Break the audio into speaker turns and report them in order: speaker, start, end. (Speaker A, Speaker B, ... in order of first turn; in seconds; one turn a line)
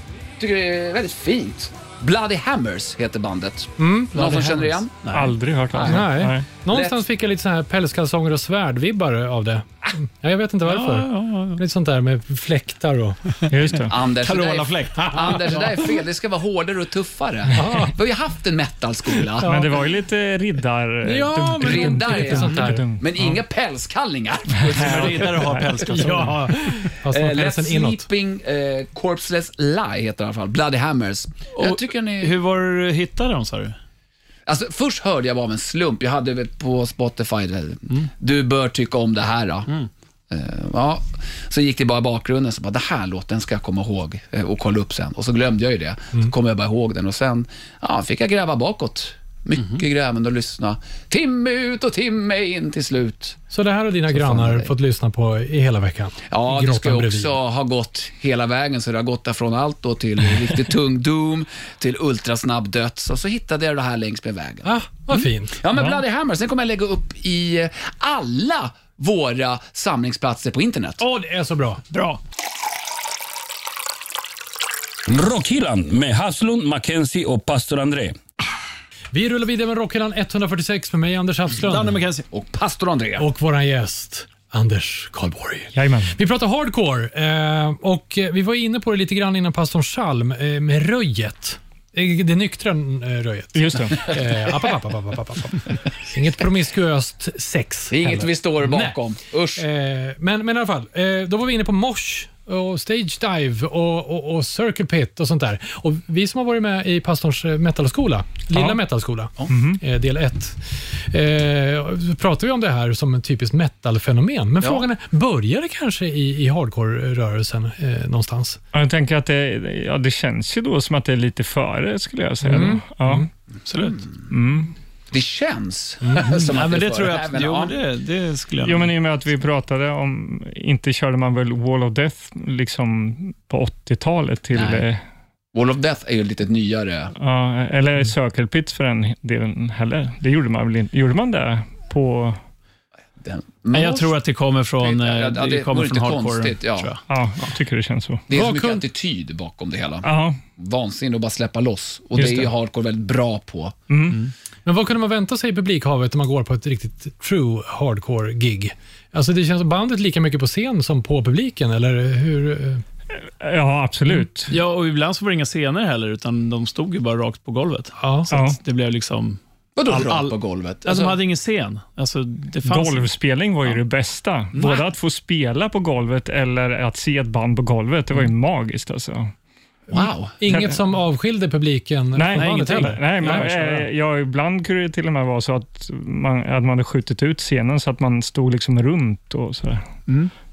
Speaker A: 0.4-5.1
Speaker B: 3.8-4.2
Speaker C: 4.1-5.3
Speaker D: 5.1-6.5
Speaker A: 5.7-6.0
Speaker B: 5.8-13.3
Speaker A: 6.7-7.0
Speaker C: 10.7-11.6
Speaker D: 13.5-13.9
Speaker A: 13.9-19.6
Speaker C: 14.1-15.9
Speaker B: 15.0-15.4
Speaker B: 17.6-17.9
Speaker B: 19.4-19.7
Speaker D: 19.4-23.2
Speaker B: 21.0-22.8
Speaker A: 21.6-25.6
Speaker D: 24.6-26.2
Speaker C: 24.7-26.7
Speaker B: 25.9-28.1
Speaker A: 27.0-32.3
Speaker C: 31.5-33.8
Speaker A: 34.5-39.7
Speaker A: 40.3-53.4
Speaker B: 53.5-57.3
Speaker A: 54.1-54.7
Speaker A: 56.3-64.7
Speaker B: 64.6-65.6
Speaker A: 65.5-71.0
Speaker B: 71.0-71.8
Speaker C: 71.9-72.2
Speaker E: 75.1-78.2
Speaker B: 79.1-82.0
Speaker C: 81.6-82.2
Speaker A: 82.3-83.2
Speaker B: 83.2-99.0
Speaker D: 85.7-86.1
Speaker D: 93.5-94.2
Speaker A: 97.9-99.6
Speaker B: 99.6-118.6
Speaker D: 108.5-108.8
Speaker D: 109.5-109.8
Speaker D: 118.7-123.3
Speaker B: 122.4-123.3
Speaker C: 123.7-124.0
Speaker D: 124.3-124.7
Speaker A: 125.1-127.8
Speaker B: 126.0-126.4
Speaker C: 126.2-128.9
Speaker D: 128.6-135.0
Speaker A: 135.5-137.1
Speaker D: 137.2-142.4
Speaker A: 143.2-144.1
Speaker C: 143.7-147.0
Speaker A: 144.8-146.9
Speaker D: 147.1-148.2
Speaker A: 148.3-153.9
Speaker B: 148.3-148.8
Speaker D: 150.0-150.4
Speaker D: 152.2-152.4
Speaker D: 153.9-154.2
Speaker B: 154.7-162.8
Speaker D: 163.1-164.5
Speaker C: 164.5-173.1
Speaker B: 168.0-168.3
Speaker D: 168.3-168.6
Speaker A: 169.8-171.2
Speaker D: 172.6-179.3
Speaker C: 174.5-174.8
Speaker B: 179.9-183.8
Speaker A: 179.9-180.3
Speaker D: 180.5-180.8
Speaker D: 182.1-190.0
Speaker C: 182.3-183.6